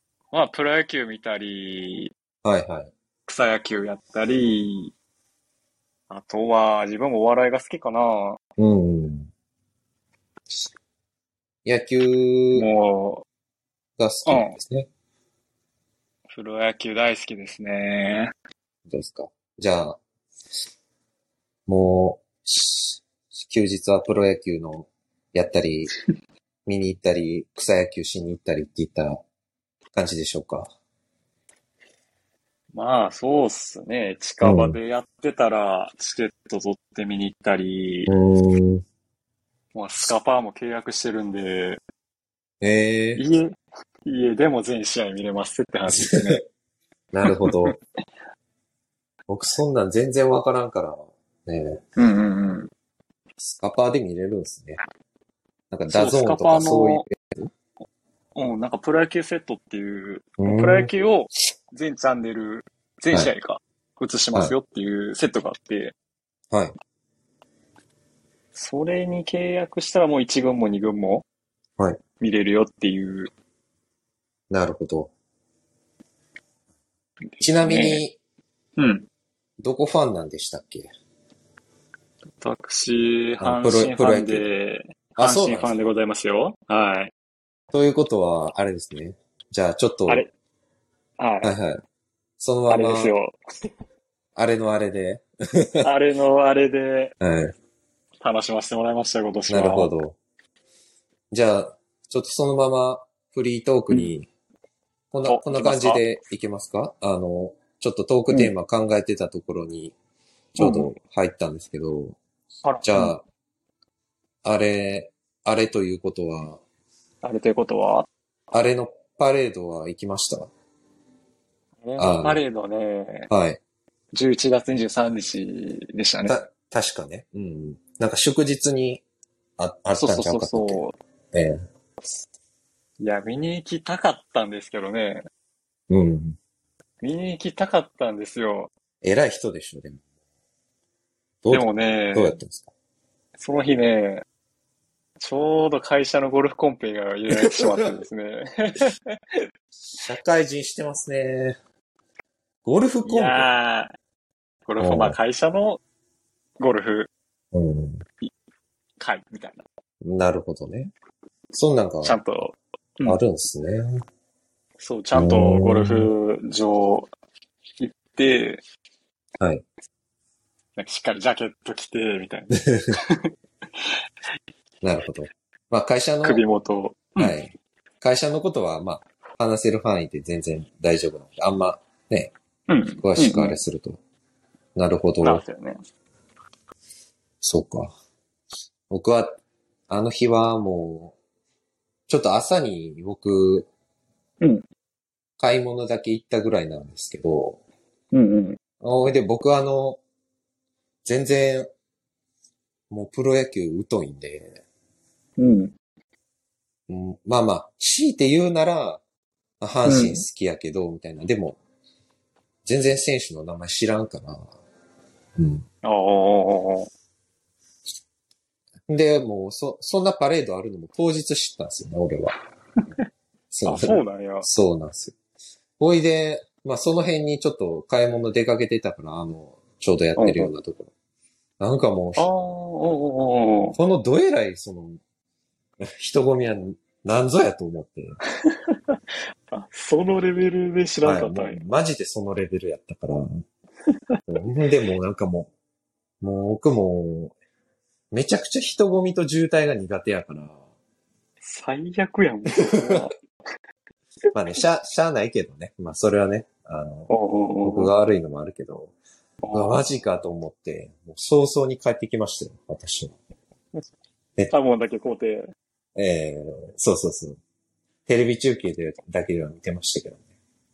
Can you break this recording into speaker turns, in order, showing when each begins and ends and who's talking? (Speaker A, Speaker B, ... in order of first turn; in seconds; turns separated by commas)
Speaker A: 0.3-2.1, Speaker B: 2.4-2.9, Speaker A: 3.3-4.9, Speaker A: 6.1-8.4, Speaker B: 8.6-9.3, Speaker B: 11.7-12.7, Speaker A: 12.6-13.2, Speaker B: 14.0-14.9, Speaker A: 14.3-14.6, Speaker A: 16.3-18.3, Speaker B: 18.9-20.0, Speaker B: 21.7-25.9, Speaker B: 26.7-29.2, Speaker B: 29.9-30.7, Speaker A: 32.7-38.1, Speaker B: 34.4-34.8, Speaker B: 38.1-38.8, Speaker A: 39.7-41.8, Speaker B: 42.6-43.2, Speaker A: 43.2-46.4, Speaker B: 45.9-46.4, Speaker B: 47.1-47.8, Speaker A: 47.3-47.7, Speaker B: 49.3-51.9, Speaker A: 52.0-52.7, Speaker B: 53.4-54.8, Speaker B: 55.7-57.5, Speaker A: 55.9-57.0, Speaker A: 58.4-66.0, Speaker B: 60.4-60.9, Speaker A: 68.5-71.2, Speaker A: 72.2-73.3, Speaker B: 74.5-75.1, Speaker A: 77.3-78.0, Speaker B: 77.4-78.2, Speaker A: 78.8-79.1, Speaker B: 79.6-80.9, Speaker A: 82.4-87.1, Speaker B: 83.4-84.5, Speaker B: 85.2-85.8, Speaker B: 87.7-90.3, Speaker A: 91.2-91.5, Speaker B: 91.4-91.8, Speaker B: 92.4-93.1, Speaker A: 92.7-93.7, Speaker B: 94.4-95.9, Speaker A: 95.8-97.2, Speaker B: 97.2-97.5, Speaker A: 98.2-99.9, Speaker B: 99.5-100.2, Speaker B: 101.3-104.3, Speaker B: 105.1-110.0, Speaker A: 105.3-106.0, Speaker B: 110.5-112.2, Speaker A: 110.6-110.9, Speaker A: 112.7-113.2, Speaker B: 112.8-113.2, Speaker B: 114.4-116.6, Speaker A: 117.2-118.1, Speaker B: 118.5-120.5, Speaker A: 121.8-123.3, Speaker B: 122.0-122.4, Speaker B: 123.3-123.6, Speaker A: 124.1-126.4, Speaker B: 126.3-129.0, Speaker B: 129.6-131.7, Speaker A: 130.0-130.9, Speaker A: 133.0-135.3, Speaker B: 135.9-136.4, Speaker A: 137.0-138.7, Speaker B: 139.0-140.0, Speaker B: 141.4-142.7, Speaker A: 141.5-142.4, Speaker A: 143.4-144.2, Speaker A: 145.2-149.4, Speaker B: 147.3-148.0, Speaker B: 150.0-151.6, Speaker B: 152.6-153.5, Speaker A: 153.0-153.9, Speaker A: 154.7-155.8, Speaker B: 154.8-155.2, Speaker A: 156.6-157.1, Speaker B: 157.5-158.1, Speaker A: 159.0-159.7, Speaker B: 160.0-160.9, Speaker B: 161.5-162.2, Speaker A: 162.0-163.2, Speaker B: 163.1-164.0, Speaker A: 164.8-167.1, Speaker B: 165.2-166.1, Speaker A: 167.8-168.6, Speaker B: 169.4-169.7, Speaker A: 170.8-173.3, Speaker B: 172.5-173.0, Speaker B: 174.8-176.4, Speaker A: 176.2-177.4, Speaker B: 177.2-182.3, Speaker A: 182.7-183.6, Speaker B: 183.0-184.0, Speaker B: 184.8-185.4, Speaker A: 185.2-185.8, Speaker B: 187.4-187.9, Speaker B: 188.9-191.2, Speaker B: 192.1-193.7, Speaker B: 195.4-197.6, Speaker A: 198.1-198.6, Speaker B: 198.8-200.0, Speaker B: 201.0-201.7, Speaker B: 202.9-204.6, Speaker A: 205.4-205.7, Speaker B: 206.9-209.0, Speaker B: 209.6-211.6, Speaker A: 209.9-210.2, Speaker B: 212.7-214.5, Speaker B: 215.4-215.7, Speaker A: 215.8-216.9, Speaker B: 218.9-222.4, Speaker B: 223.5-225.2, Speaker A: 223.7-224.5, Speaker B: 225.8-230.9, Speaker A: 230.2-230.5, Speaker B: 231.6-232.3, Speaker A: 232.2-233.8, Speaker B: 233.8-235.0, Speaker B: 235.8-238.2, Speaker A: 238.4-239.0, Speaker A: 239.5-241.6, Speaker B: 241.0-243.4, Speaker B: 244.3-245.5, Speaker B: 246.2-247.4, Speaker B: 248.1-250.6, Speaker A: 251.4-253.1, Speaker B: 252.6-253.0, Speaker B: 254.3-258.9, Speaker A: 257.1-257.9, Speaker A: 259.4-259.8, Speaker B: 259.5-263.2, Speaker A: 264.5-265.5, Speaker B: 266.0-267.4, Speaker B: 268.1-270.2